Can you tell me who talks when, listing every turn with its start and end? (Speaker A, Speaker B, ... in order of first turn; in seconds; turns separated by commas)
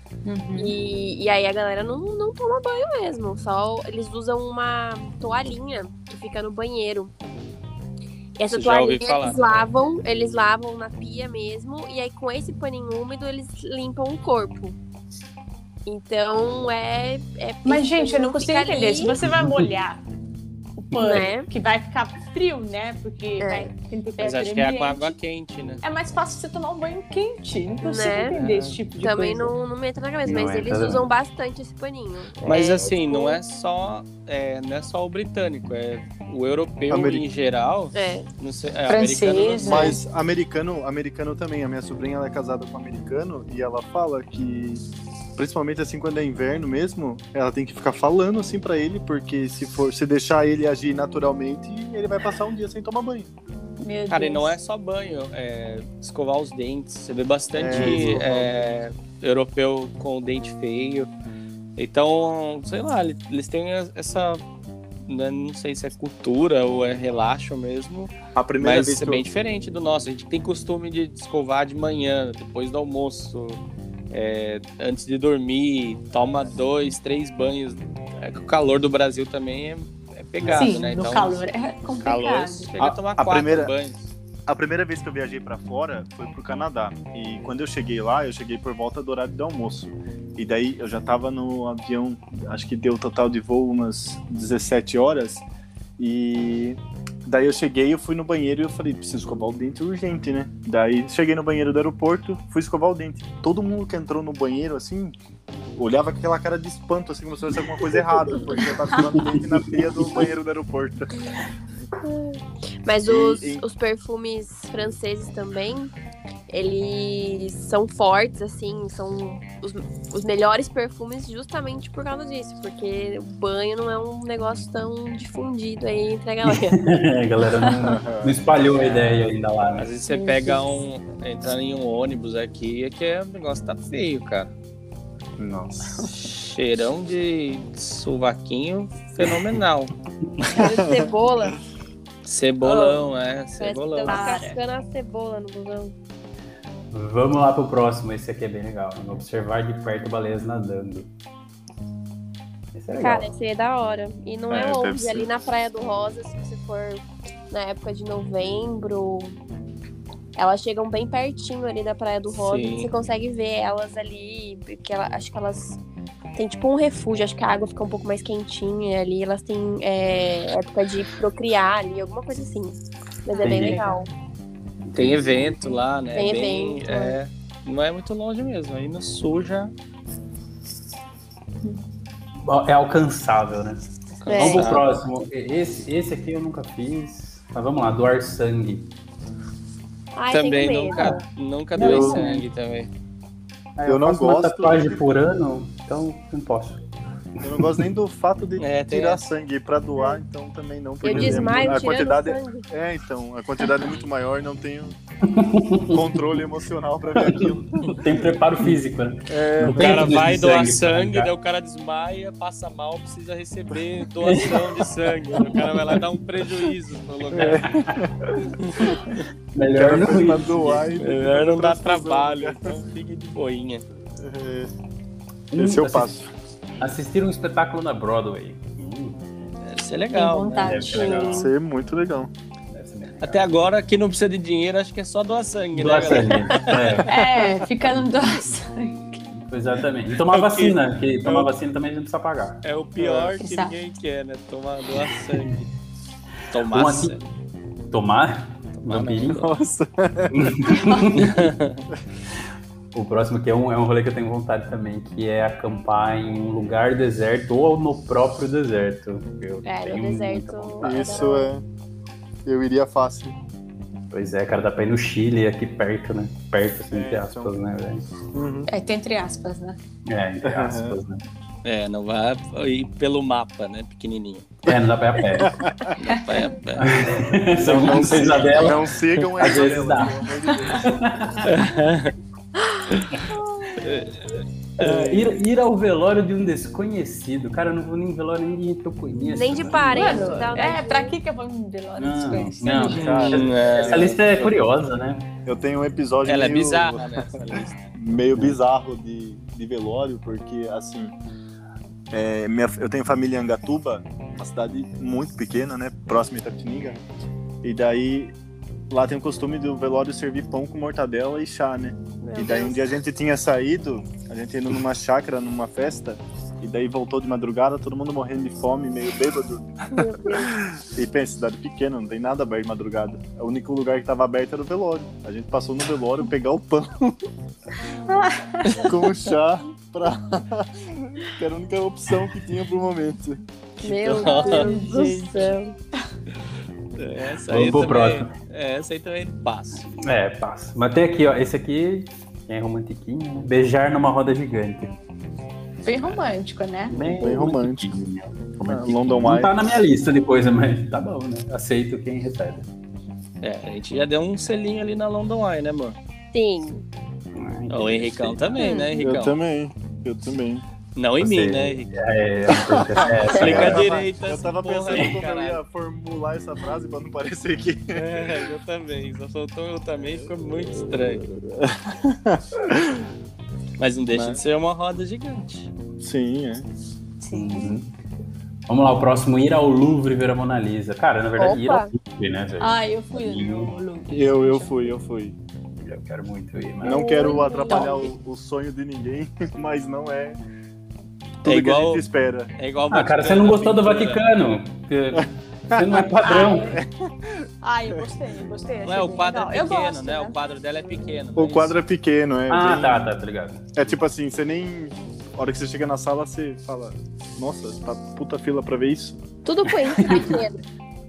Speaker A: 0.2-0.7, Speaker B: 0.5-7.1, Speaker B: 8.4-14.8, Speaker C: 8.5-9.7, Speaker B: 15.8-19.2, Speaker A: 17.6-20.0, Speaker D: 19.2-19.7, Speaker A: 20.8-25.1, Speaker D: 20.9-21.3, Speaker B: 21.0-21.5, Speaker B: 23.4-23.7, Speaker C: 24.2-25.8, Speaker A: 25.8-29.5, Speaker B: 27.8-28.4, Speaker C: 28.4-28.8, Speaker B: 29.0-33.4, Speaker D: 30.2-31.1, Speaker C: 32.4-40.0, Speaker E: 36.9-37.2, Speaker B: 37.9-38.2, Speaker A: 38.9-40.0, Speaker E: 39.6-44.8, Speaker E: 45.4-53.3, Speaker A: 53.8-54.5, Speaker C: 54.1-61.1, Speaker E: 57.5-58.6, Speaker D: 57.7-58.2, Speaker C: 61.8-64.4, Speaker C: 65.0-81.4, Speaker E: 68.3-69.2, Speaker A: 80.5-82.7, Speaker C: 82.0-84.1, Speaker E: 82.8-83.7, Speaker E: 84.5-95.4, Speaker E: 96.0-105.1, Speaker E: 105.8-111.1, Speaker D: 109.1-110.3, Speaker B: 112.0-115.9, Speaker E: 113.0-113.6, Speaker B: 116.5-126.9, Speaker D: 126.4-129.9, Speaker E: 127.8-128.4, Speaker C: 128.7-134.5, Speaker A: 130.1-130.8, Speaker E: 135.4-136.0, Speaker C: 136.1-139.9, Speaker B: 140.5-141.6, Speaker E: 140.6-141.1, Speaker C: 142.2-144.3, Speaker B: 142.6-143.0, Speaker B: 143.6-145.9, Speaker A: 144.0-144.6, Speaker D: 146.9-151.1, Speaker D: 152.7-153.3, Speaker B: 152.9-159.4, Speaker E: 154.5-155.3, Speaker B: 160.3-165.8, Speaker C: 162.4-162.9, Speaker B: 166.3-174.1, Speaker A: 173.3-174.0, Speaker D: 173.4-173.9, Speaker D: 174.9-175.5, Speaker C: 174.9-179.7, Speaker B: 176.1-177.2, Speaker D: 182.4-188.9, Speaker C: 184.2-184.8, Speaker B: 184.3-184.7, Speaker B: 190.1-191.2, Speaker C: 190.3-192.9, Speaker D: 191.8-192.4, Speaker E: 191.8-192.2, Speaker D: 193.8-196.8, Speaker E: 193.8-195.0, Speaker E: 197.4-205.0, Speaker C: 198.6-199.2, Speaker B: 201.0-202.6, Speaker D: 201.1-201.8, Speaker D: 205.3-206.2, Speaker E: 205.9-208.1, Speaker D: 207.2-211.3, Speaker E: 209.3-210.2, Speaker C: 209.6-217.8, Speaker D: 214.2-214.8, Speaker E: 217.3-218.5, Speaker D: 217.6-219.0, Speaker C: 218.6-219.2, Speaker D: 219.5-220.9, Speaker E: 219.7-222.8, Speaker C: 221.0-223.8, Speaker E: 224.2-224.7, Speaker D: 225.5-226.2, Speaker E: 225.5-226.3, Speaker D: 226.8-229.2, Speaker C: 229.6-231.2, Speaker A: 230.1-231.5, Speaker D: 230.6-231.5, Speaker E: 231.3-232.3, Speaker D: 232.7-233.5, Speaker C: 233.2-237.1, Speaker D: 235.7-237.2, Speaker A: 237.1-239.2, Speaker D: 239.3-242.6, Speaker C: 240.2-241.5, Speaker C: 242.6-245.6, Speaker E: 243.0-243.3, Speaker A: 243.4-243.7, Speaker D: 245.3-245.7, Speaker C: 246.5-247.2, Speaker D: 246.7-247.2, Speaker D: 247.9-249.5, Speaker C: 248.8-249.4, Speaker E: 249.2-250.8, Speaker D: 250.3-251.5, Speaker C: 251.1-251.8, Speaker D: 252.9-261.3, Speaker B: 259.6-261.5, Speaker E: 260.8-261.6, Speaker E: 262.4-263.4, Speaker D: 264.1-268.0, Speaker E: 266.9-267.5, Speaker E: 268.3-268.7, Speaker A: 268.7-269.8, Speaker D: 270.1-271.2, Speaker E: 270.4-271.0, Speaker C: 271.6-274.6, Speaker D: 274.6-275.7, Speaker E: 275.3-275.9, Speaker C: 276.0-277.1, Speaker A: 276.1-276.4, Speaker D: 276.8-281.7, Speaker E: 277.5-281.4, Speaker C: 277.7-279.6, Speaker C: 281.4-282.1, Speaker B: 282.6-283.7, Speaker C: 283.8-284.2, Speaker C: 284.8-285.3, Speaker D: 284.8-290.3, Speaker E: 284.8-285.2, Speaker B: 289.2-291.2, Speaker A: 289.8-293.1, Speaker D: 292.0-295.3, Speaker E: 292.8-294.5, Speaker C: 292.9-294.4, Speaker E: 295.4-301.1, Speaker C: 296.2-297.9, Speaker E: 302.1-307.0, Speaker E: 307.6-308.3, Speaker E: 308.9-320.0, Speaker B: 312.2-312.8, Speaker B: 319.9-320.5, Speaker E: 320.7-327.2, Speaker A: 328.1-328.9, Speaker E: 328.8-333.4, Speaker B: 333.8-335.8, Speaker C: 333.8-334.8, Speaker A: 334.2-335.5, Speaker C: 337.0-339.9, Speaker D: 337.5-338.3, Speaker D: 339.9-344.9, Speaker A: 345.8-347.0, Speaker D: 346.9-352.7, Speaker E: 347.1-347.9, Speaker E: 348.7-349.7, Speaker C: 353.4-356.0, Speaker B: 356.3-356.8, Speaker D: 357.3-358.6, Speaker C: 357.7-359.4, Speaker A: 358.6-358.9, Speaker E: 359.0-360.6, Speaker C: 360.9-361.9, Speaker D: 361.2-363.9, Speaker E: 362.5-368.4, Speaker C: 363.3-365.6, Speaker C: 367.9-371.2, Speaker E: 370.2-373.1, Speaker C: 373.8-375.7, Speaker E: 374.1-374.4, Speaker E: 376.0-376.6, Speaker A: 377.2-377.7, Speaker D: 377.3-377.9, Speaker D: 378.7-383.7, Speaker B: 381.4-381.9, Speaker A: 382.6-384.9, Speaker E: 384.1-385.4, Speaker D: 385.8-387.3, Speaker E: 386.8-390.4, Speaker B: 386.9-387.9, Speaker A: 386.9-388.1, Speaker C: 391.4-392.0, Speaker E: 391.4-392.5, Speaker C: 392.6-394.2, Speaker D: 392.9-396.8, Speaker E: 395.2-397.4, Speaker A: 396.2-396.8, Speaker A: 397.6-400.4, Speaker C: 398.8-401.8, Speaker E: 401.4-403.1, Speaker D: 402.5-403.9, Speaker E: 403.8-409.2, Speaker B: 409.4-410.6, Speaker D: 409.7-410.4